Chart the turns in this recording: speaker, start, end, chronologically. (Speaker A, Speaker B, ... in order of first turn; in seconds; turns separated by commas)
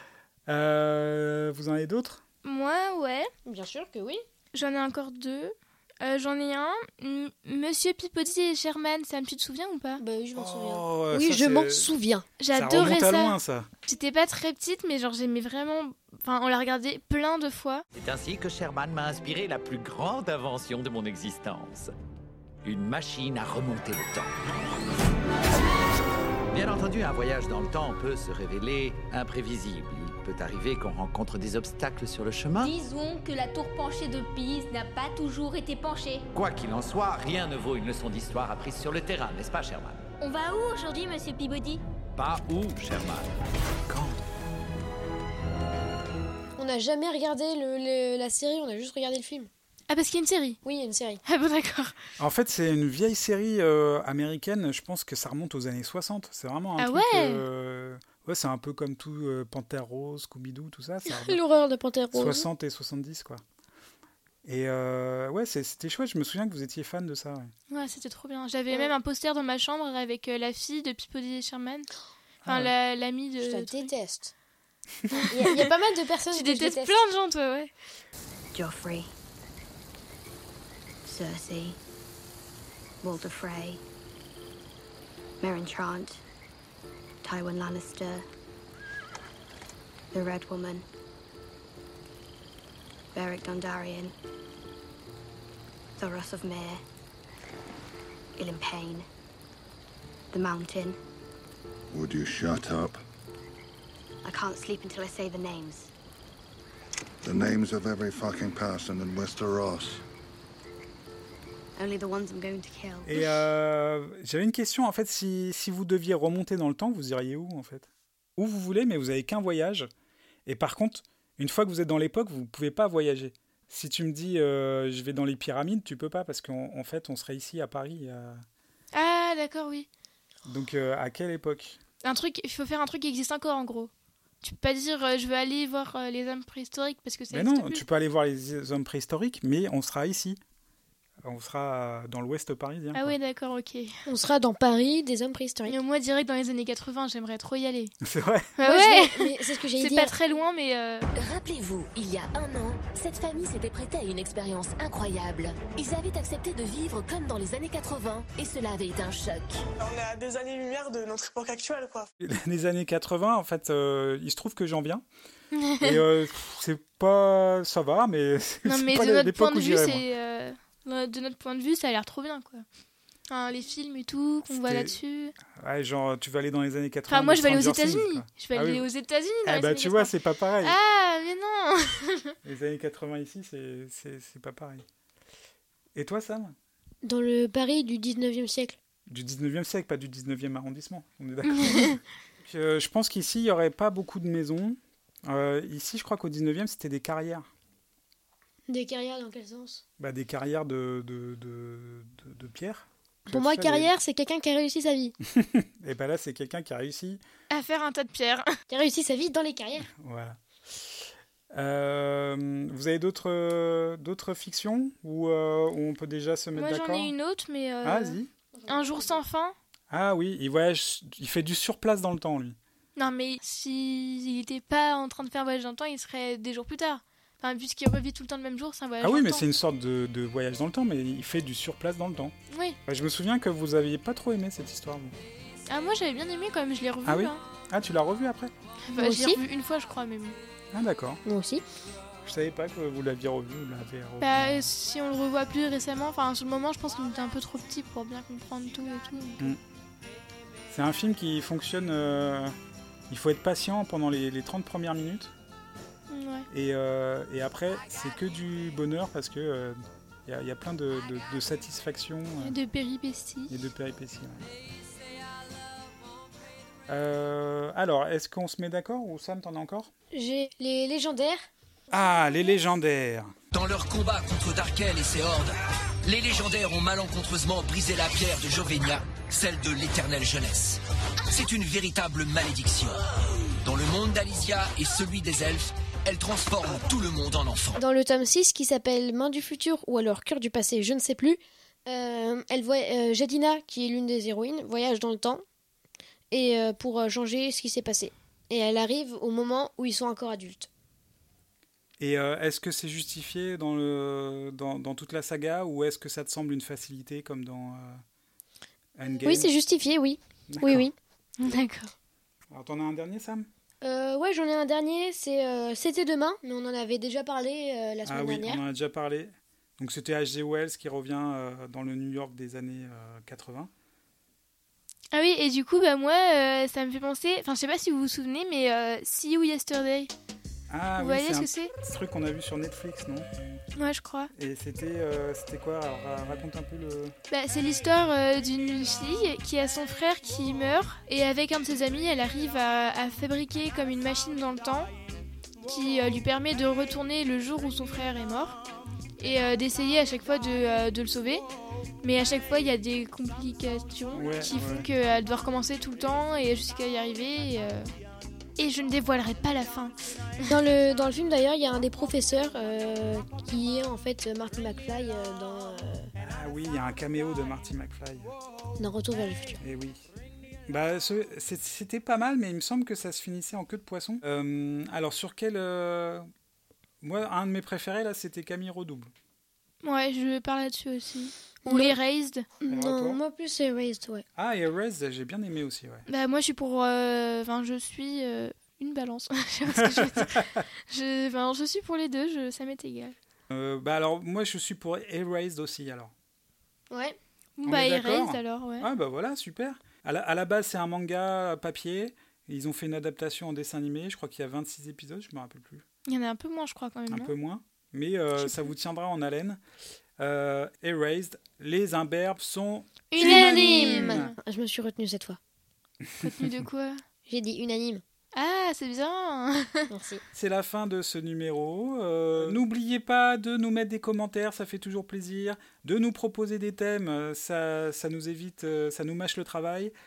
Speaker A: 0.5-2.2, Speaker B: 2.4-3.3, Speaker C: 3.5-4.2, Speaker B: 4.5-10.0, Speaker C: 10.0-12.3, Speaker A: 10.3-11.9, Speaker B: 12.4-13.3, Speaker A: 12.5-13.7, Speaker B: 13.9-17.8, Speaker D: 17.9-21.9, Speaker D: 22.6-24.3, Speaker D: 26.5-32.7, Speaker E: 32.7-36.1, Speaker D: 36.3-40.0, Speaker D: 42.1-43.3, Speaker D: 43.9-44.2, Speaker C: 46.6-49.5, Speaker B: 49.9-50.6, Speaker C: 50.6-51.2, Speaker B: 51.2-52.0, Speaker A: 52.2-61.4, Speaker B: 56.8-57.4, Speaker C: 61.1-62.5, Speaker A: 62.1-63.4, Speaker A: 64.4-67.5, Speaker B: 67.7-71.9, Speaker A: 72.4-72.7, Speaker B: 72.4-73.9, Speaker C: 73.4-74.3, Speaker C: 75.1-77.0, Speaker B: 76.3-77.7, Speaker F: 78.5-79.1, Speaker F: 81.0-81.8, Speaker F: 83.0-83.8, Speaker F: 85.4-86.2, Speaker F: 87.2-88.2, Speaker F: 90.1-90.8, Speaker F: 93.1-94.1, Speaker F: 96.0-96.8, Speaker F: 98.4-99.0, Speaker F: 100.3-101.0, Speaker G: 101.9-103.0, Speaker F: 104.2-105.9, Speaker G: 107.2-110.0, Speaker F: 111.8-113.1, Speaker A: 113.0-119.9, Speaker A: 120.5-128.4, Speaker B: 128.9-129.9, Speaker A: 130.4-131.8, Speaker B: 132.0-133.9, Speaker B: 134.4-137.8, Speaker A: 137.3-140.4, Speaker A: 141.2-143.1, Speaker B: 142.9-143.9, Speaker C: 144.1-145.7, Speaker B: 145.7-147.9, Speaker A: 148.0-148.5, Speaker B: 148.6-151.1, Speaker C: 148.6-150.1, Speaker H: 151.2-159.6, Speaker I: 159.8-162.1, Speaker A: 162.2-165.0, Speaker B: 165.5-166.0, Speaker A: 165.8-170.0, Speaker B: 168.7-172.6, Speaker B: 173.3-175.3, Speaker A: 174.5-174.9, Speaker A: 175.5-178.9, Speaker B: 177.1-180.1, Speaker A: 179.4-180.8, Speaker B: 180.6-182.3, Speaker A: 182.4-184.8, Speaker A: 185.9-186.5, Speaker C: 187.0-188.8, Speaker A: 189.1-197.5, Speaker B: 191.4-191.9, Speaker C: 198.7-199.8, Speaker A: 200.0-203.9, Speaker C: 203.3-205.1, Speaker A: 205.2-207.2, Speaker B: 207.5-208.5, Speaker C: 208.7-209.9, Speaker A: 209.8-217.1, Speaker B: 216.6-219.5, Speaker A: 217.8-218.3, Speaker C: 218.6-218.8, Speaker A: 219.9-222.6, Speaker B: 222.9-229.4, Speaker A: 229.0-232.3, Speaker B: 232.5-232.8, Speaker A: 232.9-235.1, Speaker B: 235.7-237.4, Speaker A: 237.0-239.4, Speaker B: 238.9-240.4, Speaker A: 240.7-241.2, Speaker C: 241.2-241.6, Speaker A: 242.2-244.7, Speaker B: 244.2-249.5, Speaker A: 250.7-252.5, Speaker A: 253.1-255.3, Speaker B: 256.1-256.5, Speaker A: 256.5-262.6, Speaker B: 262.4-263.6, Speaker A: 263.5-264.5, Speaker A: 266.9-269.9, Speaker C: 270.1-271.4, Speaker A: 271.9-273.3, Speaker J: 273.5-275.5, Speaker J: 276.1-280.8, Speaker J: 281.3-282.9, Speaker J: 283.6-287.7, Speaker C: 287.8-295.4, Speaker C: 296.3-300.7, Speaker A: 302.0-308.0, Speaker A: 309.0-309.5, Speaker C: 309.2-310.9, Speaker A: 310.5-310.9, Speaker B: 311.4-311.9, Speaker A: 312.5-313.5, Speaker C: 313.8-318.6, Speaker A: 318.1-323.7, Speaker B: 325.1-330.1, Speaker A: 330.7-333.3, Speaker B: 331.0-331.7, Speaker B: 333.8-334.3, Speaker A: 334.3-337.1, Speaker B: 337.3-344.9, Speaker B: 345.6-348.6, Speaker B: 349.2-351.4, Speaker B: 352.0-357.9, Speaker A: 354.1-354.9, Speaker B: 358.6-359.9, Speaker C: 360.4-366.1, Speaker A: 366.2-368.3, Speaker C: 368.8-369.6, Speaker A: 369.6-370.0, Speaker A: 370.7-376.3, Speaker A: 377.0-379.1, Speaker B: 379.8-382.4, Speaker C: 381.7-381.9, Speaker C: 382.6-384.2, Speaker A: 382.7-383.2, Speaker A: 384.4-386.0, Speaker B: 386.1-393.1, Speaker A: 389.7-390.5, Speaker A: 393.5-396.1, Speaker C: 396.9-397.2, Speaker B: 397.6-398.9, Speaker A: 397.6-405.8, Speaker B: 406.1-407.3, Speaker A: 407.1-409.6, Speaker B: 408.4-408.7, Speaker A: 410.2-414.3, Speaker B: 413.1-414.3, Speaker C: 413.1-415.4, Speaker B: 416.2-417.0, Speaker A: 416.3-416.6, Speaker C: 417.3-418.0, Speaker B: 418.3-419.9, Speaker C: 419.9-420.2, Speaker A: 420.3-429.9